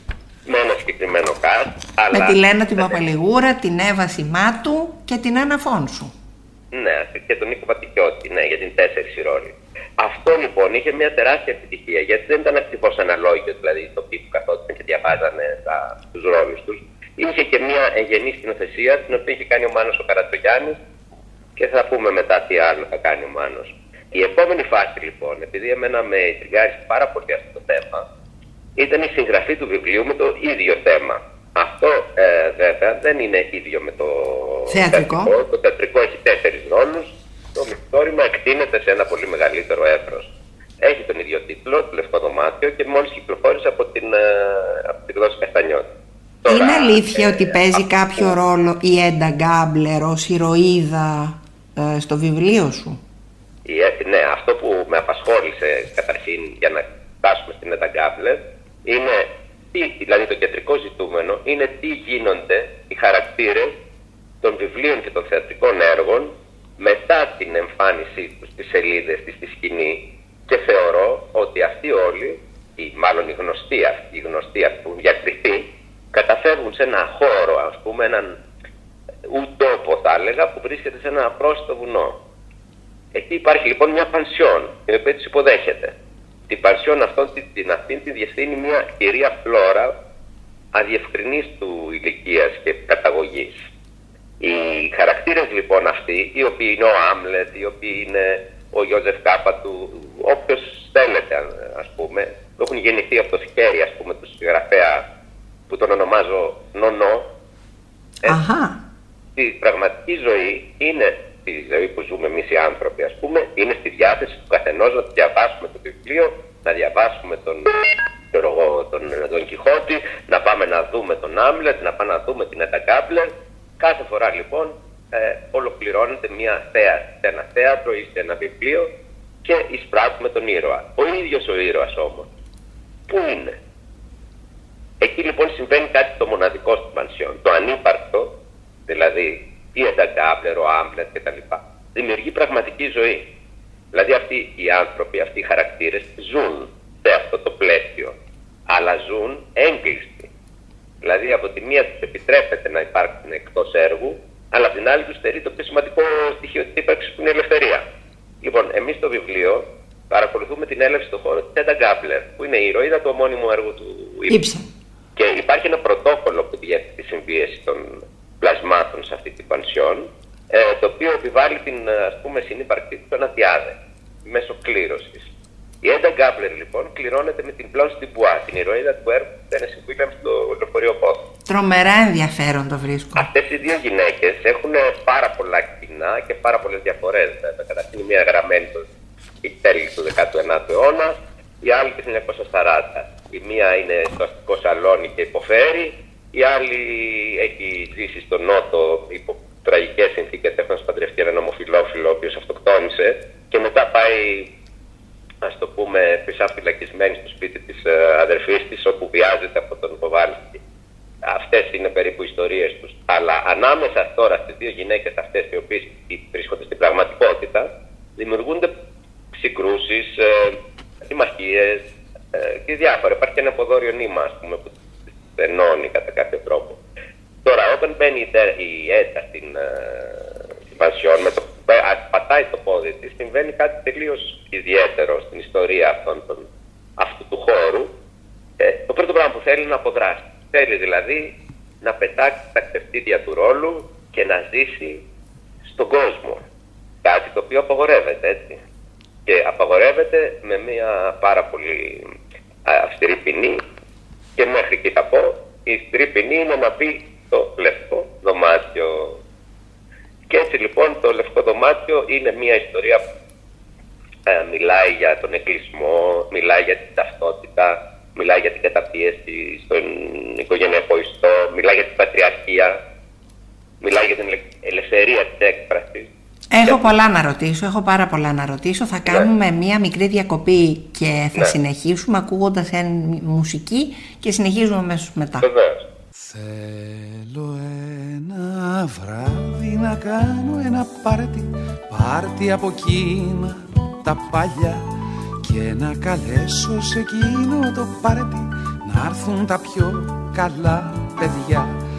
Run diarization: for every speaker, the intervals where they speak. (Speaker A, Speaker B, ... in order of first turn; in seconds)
Speaker A: 0.5-3.0, 6.7-20.8, 21.6-28.0, 28.8-40.3, 40.8-45.9, 46.4-48.3, 53.6-63.8, 64.4-78.3, 79.3-82.2, 83.1-85.9, 86.5-89.9, 90.7-93.5, 94.4-105.0, 105.7-107.3, 109.4-117.7, 118.3-128.9, 129.4-132.3, 133.1-133.5, 135.0-138.3, 138.9-143.3, 143.9-148.1, 148.7-150.3, 151.0-157.8, 158.4-164.3, 165.2-173.7, 174.2-175.3, 175.8-181.2, 183.2-188.8, 189.4-204.5, 205.4-210.6, 211.2-218.7, 219.3-224.7, 225.4-226.8, 227.4-236.4, 237.0-237.9, 238.6-245.0, 245.7-246.4, 247.0-248.6, 249.2-252.1, 252.7-253.6, 254.4-259.2, 260.3-263.0, 264.3-272.8, 273.8-276.1, 285.4-285.8
Speaker B: 2.1-6.1, 34.7-35.3, 46.5-53.0, 108.2-108.8, 164.3-164.7, 181.5-183.3, 276.5-285.5
Speaker C: 286.2-294.8, 295.4-301.7